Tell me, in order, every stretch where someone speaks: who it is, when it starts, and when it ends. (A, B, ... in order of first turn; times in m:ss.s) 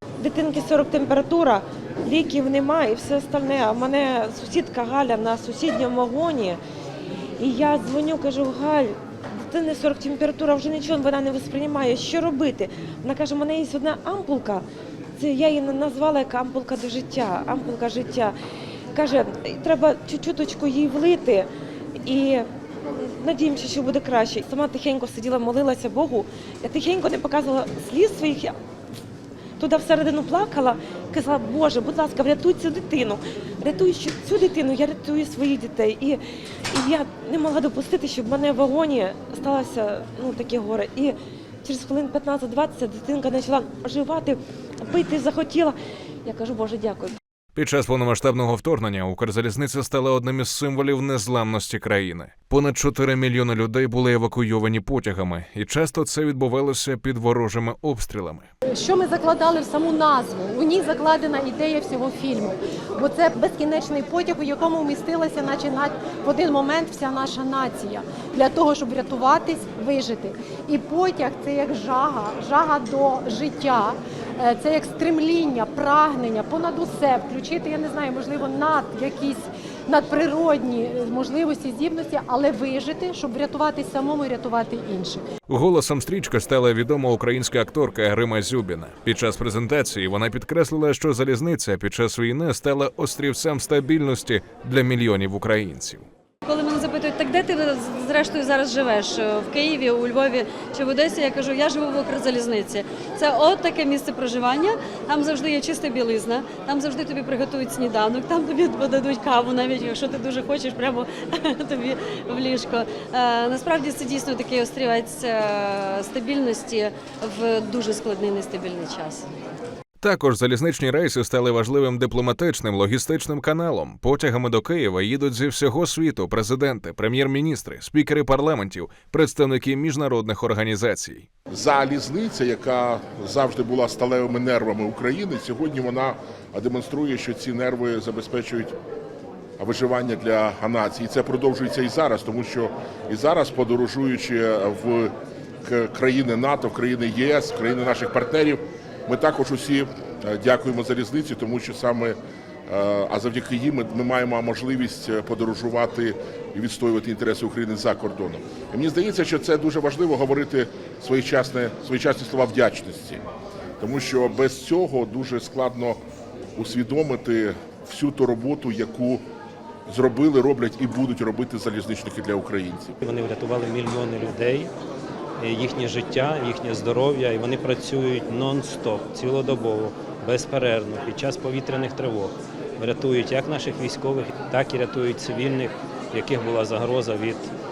0:00.2-0:06.6 A
0:07.4-0:14.6 A
0:15.2-0:18.3 A
0:18.9-0:21.5 A
0:22.0-0:28.5 A
0:29.6-0:47.2 A
0:47.5-0:58.5 B
0:58.7-1:25.2 C
1:25.5-1:36.0 B
1:36.5-1:59.3 D
2:00.0-2:11.3 B
2:11.5-2:18.8 E
2:19.6-2:25.1 E
2:25.6-2:43.2 E
2:43.8-2:46.0 E
2:46.6-2:49.2 E
2:49.9-2:53.0 E
2:53.0-2:54.7 F
2:55.4-3:07.5 F